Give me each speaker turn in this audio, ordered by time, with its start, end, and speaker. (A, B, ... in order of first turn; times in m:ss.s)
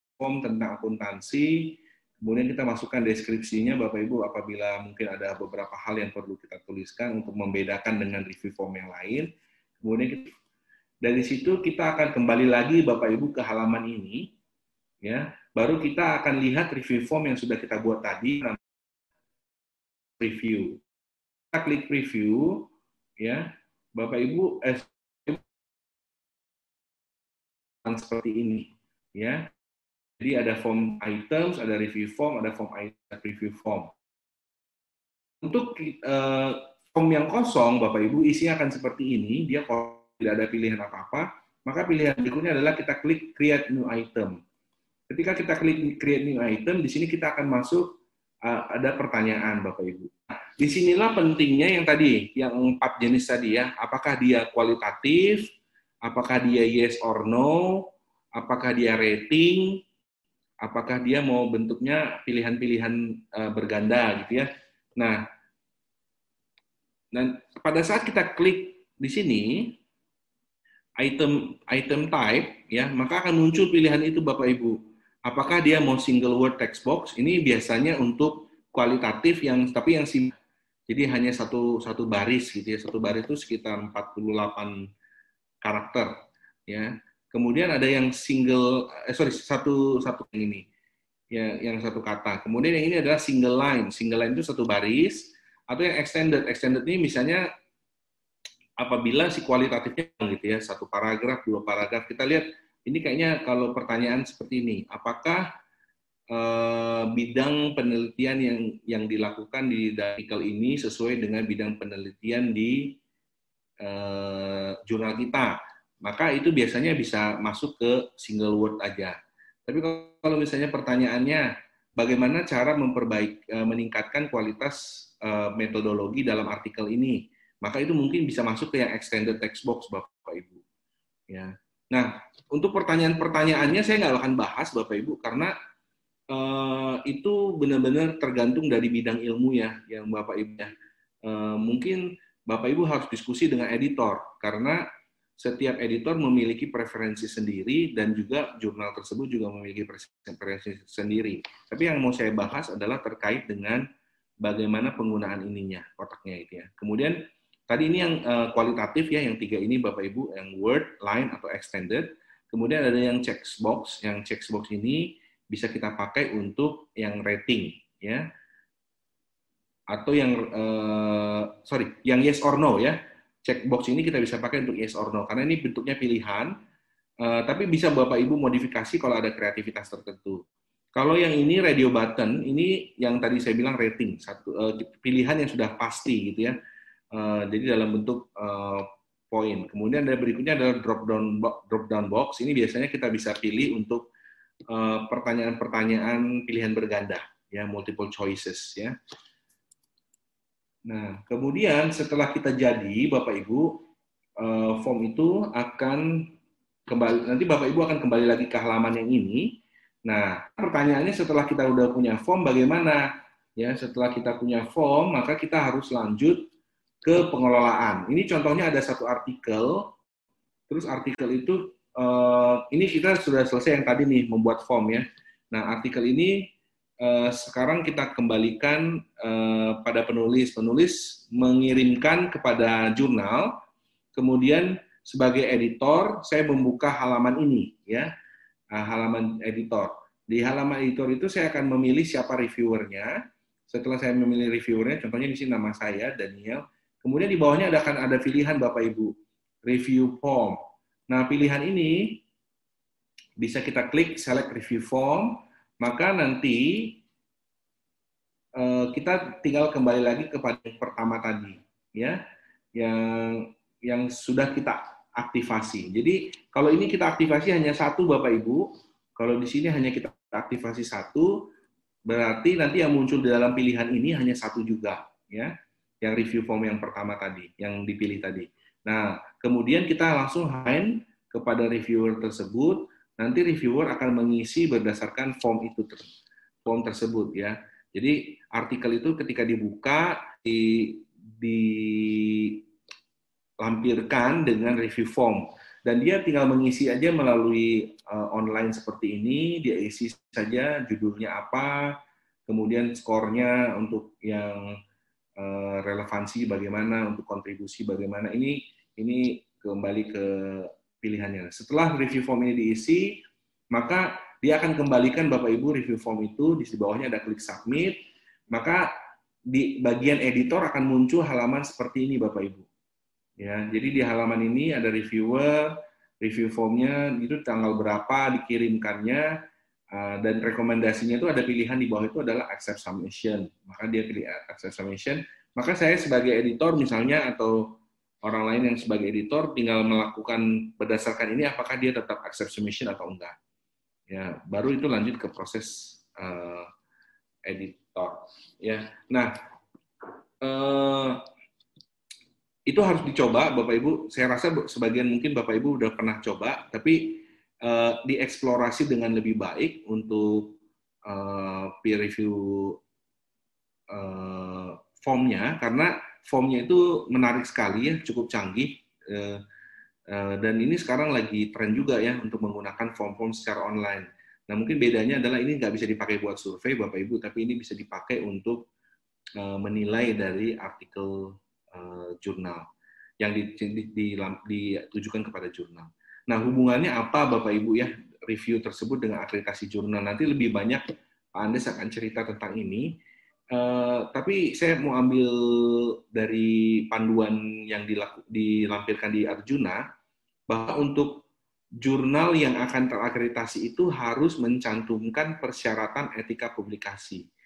0:00.2-0:09.3 A
0:09.8-0:10.3 A
0:11.0-0:14.3 A
0:15.0-0:18.6 A
0:20.2-0:20.8 A
0:21.5-0:22.7 A
0:23.2-0:25.4 A
0:27.8-0:29.5 A
0:30.2-0:33.9 A
0:35.4-0:44.4 A
0:45.1-0:47.9 A
0:48.4-0:55.5 A
0:56.0-0:57.9 A
0:58.4-0:59.8 A
1:00.6-1:05.2 A
1:07.1-1:09.8 A
1:11.0-1:20.3 A
1:20.9-1:24.8 A
1:25.6-1:26.1 A
1:26.7-1:30.6 A
1:31.3-1:37.4 A
1:38.8-1:45.4 A
1:46.3-1:53.0 A
1:53.8-1:59.2 A
1:59.7-2:01.5 A
2:02.0-2:10.6 A
2:11.3-2:15.5 A
2:16.3-2:20.7 A
2:21.2-2:24.8 A
2:25.4-2:33.8 A
2:34.4-2:37.2 A
2:37.7-2:48.2 A
2:49.9-2:56.5 A
2:57.2-3:00.4 A
3:01.0-3:06.6 A
3:07.1-3:14.1 A
3:14.7-3:19.0 A
3:20.9-3:23.8 A
3:24.4-3:26.3 A
3:26.9-3:29.4 A
3:30.1-3:36.5 A
3:37.0-3:39.9 A
3:40.7-3:46.5 A
3:47.0-3:53.6 A
3:54.2-3:58.1 A
3:58.7-4:03.1 A
4:03.7-4:09.1 A
4:09.6-4:12.2 A
4:13.4-4:17.0 A
4:18.6-4:22.2 A
4:22.8-4:31.5 A
4:32.1-4:46.1 A
4:46.6-4:52.6 A
4:53.6-5:01.8 A
5:02.5-5:04.7 A
5:05.4-5:13.2 A
5:13.7-5:18.0 A
5:18.5-5:18.9 A
5:19.5-5:22.6 A
5:23.4-5:29.3 A
5:29.9-5:43.4 A
5:44.1-5:46.7 A
5:47.5-5:49.3 A
5:50.4-5:51.2 A
5:52.7-6:02.8 A
6:03.9-6:09.4 A
6:10.1-6:18.7 A
6:19.4-6:22.7 A
6:23.2-6:33.0 A
6:33.5-6:39.8 A
6:40.5-6:41.2 A
6:41.8-6:47.3 A